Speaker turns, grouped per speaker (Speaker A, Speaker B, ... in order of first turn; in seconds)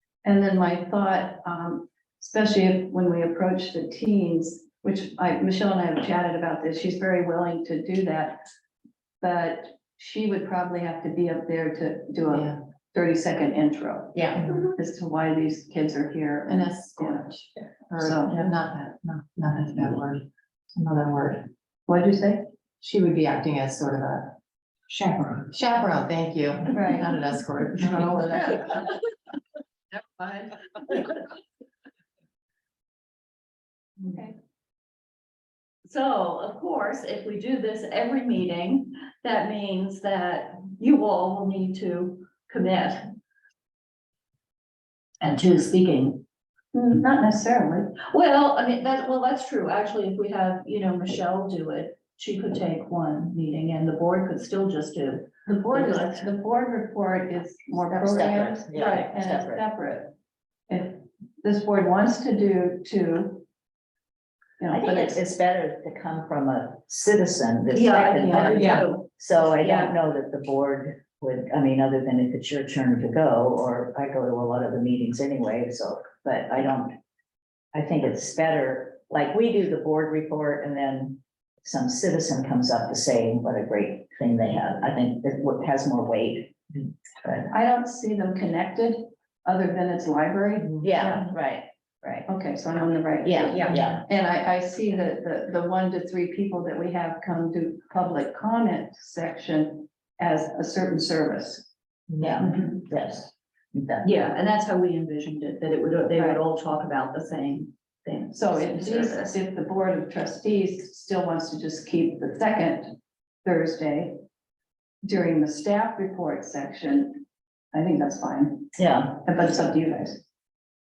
Speaker A: 0.2-8.4, 9.2-17.2, 18.0-18.4, 21.9-22.5, 26.7-27.0, 46.7-47.9, 55.5-60.1, 60.7-63.4, 64.6-65.1, 68.1-69.0, 87.5-91.3, 92.3-101.7, 102.4-102.8, 106.1-106.4, 108.3-114.2, 115.0-120.2
Speaker B: 12.3-12.6, 16.5-21.5, 22.8-24.4, 24.9-28.9, 29.9-30.4
Speaker C: 26.7-27.1, 35.8-43.1, 45.2-46.2, 48.0-56.3, 67.8-69.9, 104.0-109.3
Speaker D: 58.0-59.7, 64.6-77.0, 77.7-87.5, 90.8-92.3, 93.2-94.0, 102.1-104.1, 118.7-119.2